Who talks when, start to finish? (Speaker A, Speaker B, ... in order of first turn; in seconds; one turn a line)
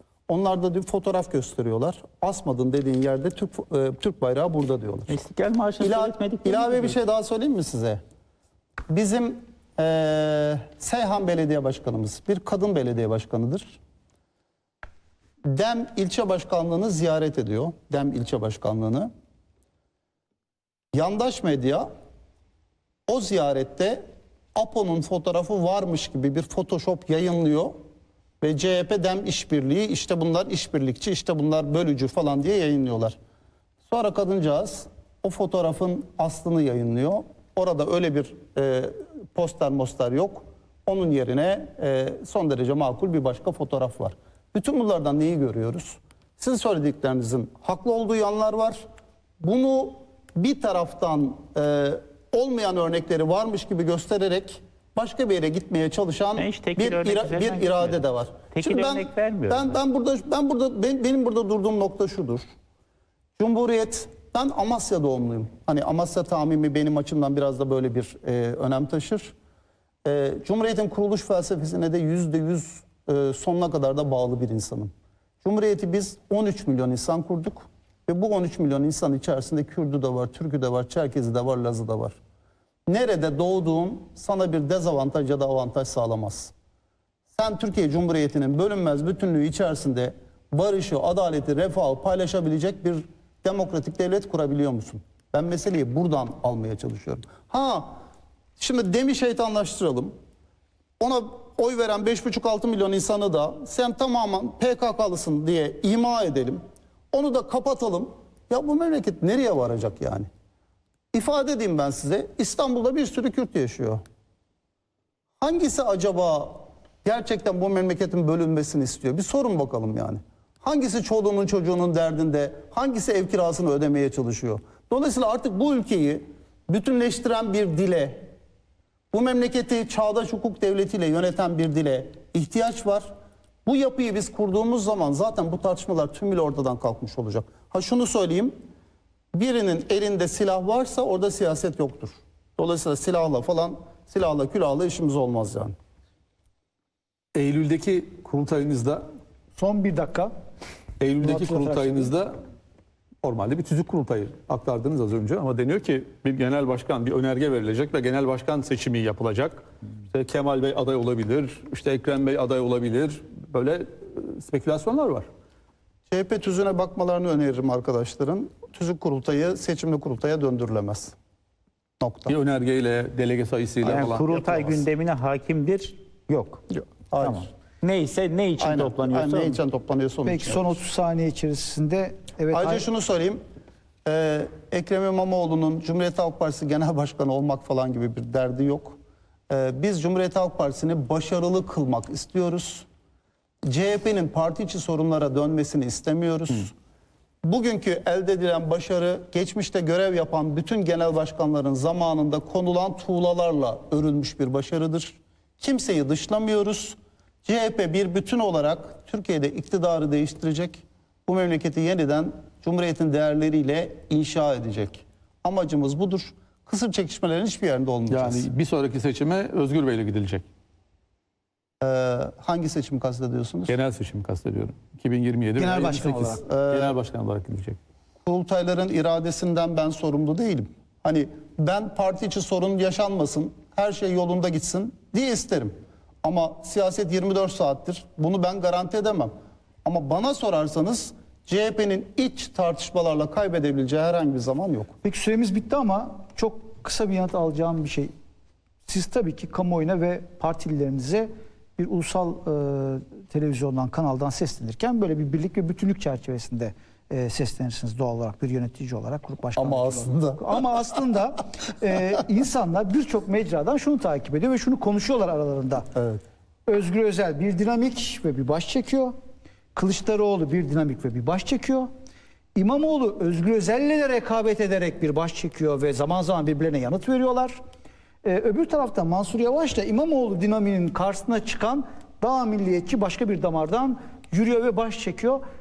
Speaker A: 0.3-5.2
Speaker B: 5.1-7.0
Speaker A: 5.8-8.0
Speaker A: 8.9-13.8
Speaker A: 15.4-19.1
Speaker A: 20.9-21.9
Speaker A: 23.1-24.0
Speaker A: 24.6-27.8
Speaker A: 28.4-33.2
Speaker A: 33.9-48.8
Speaker A: 49.4-62.5
Speaker B: 56.4-58.0
Speaker B: 58.5-59.8
Speaker A: 63.4-69.3
Speaker A: 70.0-82.2
Speaker A: 82.9-86.5
Speaker A: 87.3-98.0
Speaker A: 98.6-100.2
Speaker A: 101.0-110.3
Speaker A: 111.1-114.0
Speaker A: 115.4-128.3
Speaker A: 129.1-133.1
Speaker A: 133.7-138.6
Speaker A: 139.3-145.8
Speaker C: 147.3-149.0
Speaker D: 149.6-150.3
Speaker C: 151.0-152.3
Speaker D: 151.2-152.1
Speaker C: 153.2-165.3
Speaker A: 166.1-171.2
Speaker A: 172.0-172.4
Speaker C: 172.3-174.8
Speaker B: 173.8-176.7
Speaker A: 176.8-177.5
Speaker B: 177.2-179.6
Speaker A: 178.6-180.7
Speaker D: 180.2-182.9
Speaker A: 182.5-183.4
Speaker A: 184.1-189.0
Speaker A: 189.5-192.9
Speaker A: 193.7-196.7
Speaker A: 197.4-218.5
Speaker C: 218.1-220.5
Speaker A: 221.8-223.8
Speaker C: 223.7-227.8
Speaker D: 225.6-226.4
Speaker A: 226.4-226.9
Speaker A: 228.2-239.3
Speaker A: 239.8-244.9
Speaker D: 245.0-248.1
Speaker D: 248.9-265.9
Speaker A: 259.6-260.6
Speaker A: 265.9-266.2
Speaker D: 266.7-269.1
Speaker D: 269.8-271.9
Speaker D: 272.6-277.6
Speaker D: 278.2-285.4